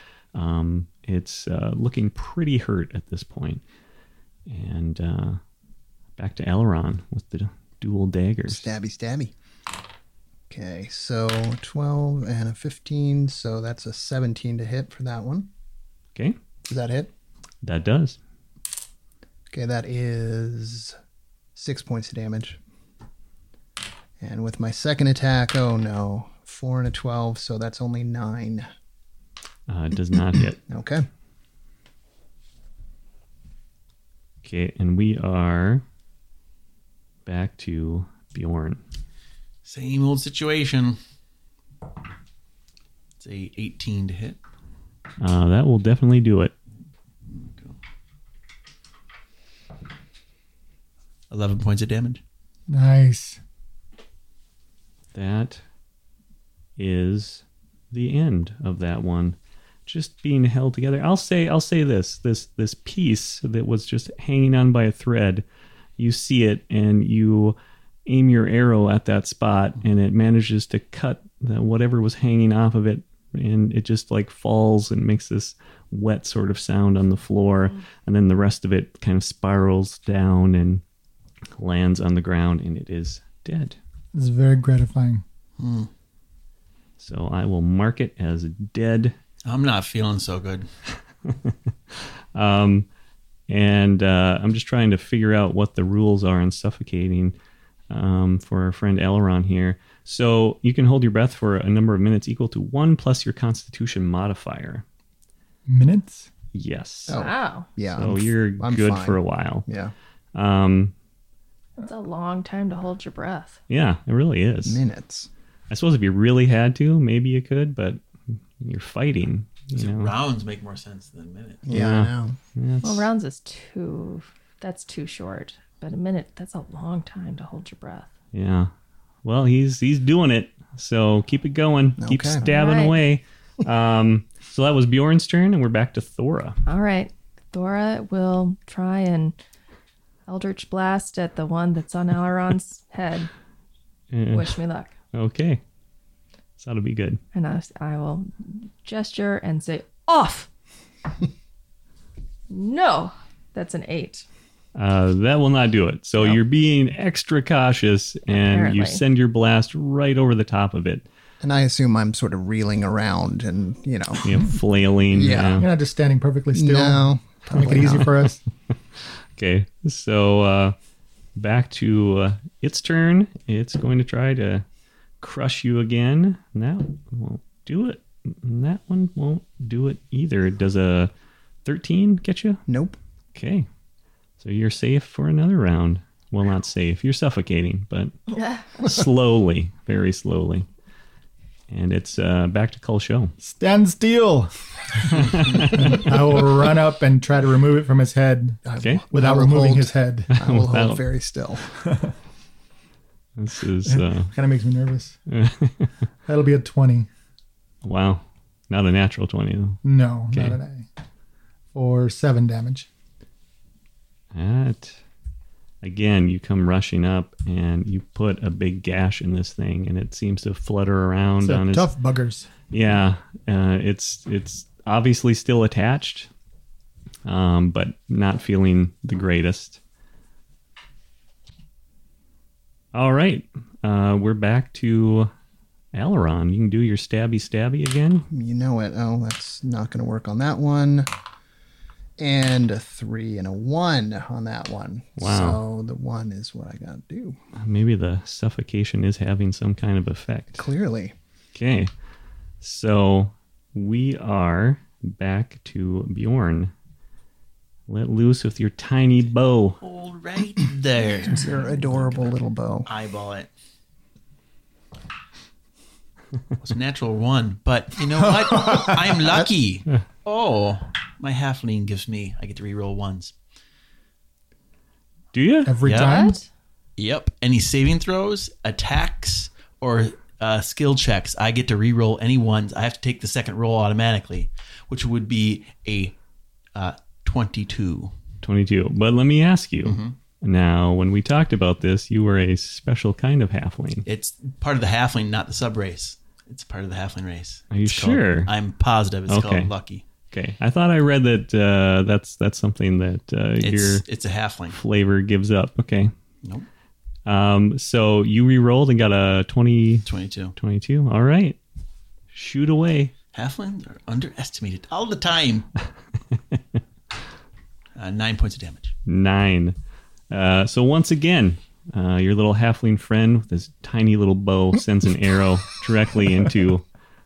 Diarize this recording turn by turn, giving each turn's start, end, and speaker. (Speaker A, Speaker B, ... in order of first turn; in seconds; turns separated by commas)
Speaker A: 0.3-3.6, Speaker A: 4.5-5.4, Speaker A: 6.2-8.7, Speaker B: 8.5-9.3, Speaker B: 10.5-15.5, Speaker B: 16.6-17.1, Speaker A: 17.6-18.2, Speaker B: 19.5-21.0, Speaker B: 21.5-22.6, Speaker B: 24.2-28.7, Speaker A: 29.7-30.6, Speaker B: 30.7-31.1, Speaker A: 34.4-35.8, Speaker A: 37.2-38.8, Speaker C: 39.6-41.0, Speaker C: 43.2-44.4, Speaker A: 45.2-46.5, Speaker C: 47.3-47.8, Speaker C: 51.3-52.2, Speaker D: 52.7-53.4, Speaker A: 55.1-55.6, Speaker A: 56.8-59.4, Speaker A: 59.9-65.4, Speaker A: 66.0-80.8, Speaker A: 81.6-83.8, Speaker D: 84.1-85.2, Speaker C: 85.6-85.9, Speaker A: 87.0-89.2, Speaker C: 89.4-90.7, Speaker A: 91.2-92.8, Speaker A: 93.5-97.3, Speaker A: 97.9-104.8, Speaker D: 105.7-106.3, Speaker A: 106.5-107.2, Speaker B: 107.1-109.9, Speaker E: 107.1-107.7, Speaker A: 107.9-109.7, Speaker A: 110.3-110.9, Speaker E: 111.8-113.6, Speaker A: 113.7-114.8, Speaker B: 114.6-115.3, Speaker A: 115.7-118.0, Speaker A: 118.6-120.1, Speaker C: 119.7-121.7, Speaker B: 121.7-122.3, Speaker A: 121.7-123.1, Speaker E: 122.8-128.1, Speaker A: 128.3-128.7, Speaker A: 129.2-136.6, Speaker B: 132.0-132.4, Speaker E: 132.4-133.0, Speaker E: 136.7-139.3, Speaker E: 140.3-143.3, Speaker A: 144.1-144.6, Speaker E: 144.3-144.9, Speaker A: 145.1-145.6, Speaker A: 146.6-147.2, Speaker E: 147.3-150.5, Speaker E: 152.5-154.2, Speaker A: 154.7-161.0, Speaker E: 158.3-159.0, Speaker B: 161.4-164.5, Speaker A: 164.2-165.7, Speaker B: 165.1-165.7, Speaker D: 165.6-168.4, Speaker B: 166.5-168.2, Speaker A: 169.0-170.7, Speaker A: 171.4-174.6, Speaker A: 175.2-181.1, Speaker A: 181.6-182.6, Speaker B: 182.7-183.0, Speaker A: 183.3-183.7, Speaker A: 184.4-188.1, Speaker A: 188.8-190.7, Speaker A: 191.7-193.3, Speaker D: 193.4-200.3, Speaker A: 195.1-196.0, Speaker B: 198.7-201.8, Speaker A: 200.3-201.0, Speaker D: 201.8-202.1, Speaker A: 203.4-204.3, Speaker D: 203.8-205.2, Speaker A: 205.3-205.9, Speaker D: 206.2-207.1, Speaker A: 207.8-209.8, Speaker D: 209.8-210.9, Speaker A: 210.3-210.6, Speaker D: 211.7-212.9, Speaker A: 214.3-215.0, Speaker A: 215.8-221.9, Speaker D: 221.4-222.5, Speaker A: 222.7-226.3, Speaker A: 227.2-229.8, Speaker A: 232.9-235.3, Speaker A: 235.9-238.3, Speaker B: 238.3-241.1, Speaker B: 242.2-247.4, Speaker A: 245.2-245.6, Speaker A: 247.6-250.7, Speaker B: 250.6-251.2, Speaker A: 251.5-251.9, Speaker A: 252.6-256.7, Speaker A: 257.9-259.8, Speaker C: 259.8-263.5, Speaker B: 261.3-262.9, Speaker C: 266.6-273.3, Speaker A: 275.3-275.8, Speaker D: 275.6-276.4, Speaker C: 275.8-276.2, Speaker E: 275.9-276.4, Speaker C: 277.0-286.1, Speaker C: 286.7-288.1, Speaker A: 288.4-294.1, Speaker C: 289.8-290.1, Speaker C: 294.0-300.0, Speaker A: 297.7-298.5, Speaker A: 299.3-299.7, Speaker A: 300.3-304.0, Speaker C: 303.6-304.8, Speaker A: 304.7-306.1, Speaker A: 307.2-311.6, Speaker C: 310.0-310.5, Speaker A: 312.3-313.1, Speaker C: 313.3-315.7, Speaker C: 317.9-318.9, Speaker A: 319.1-319.8, Speaker A: 320.3-326.8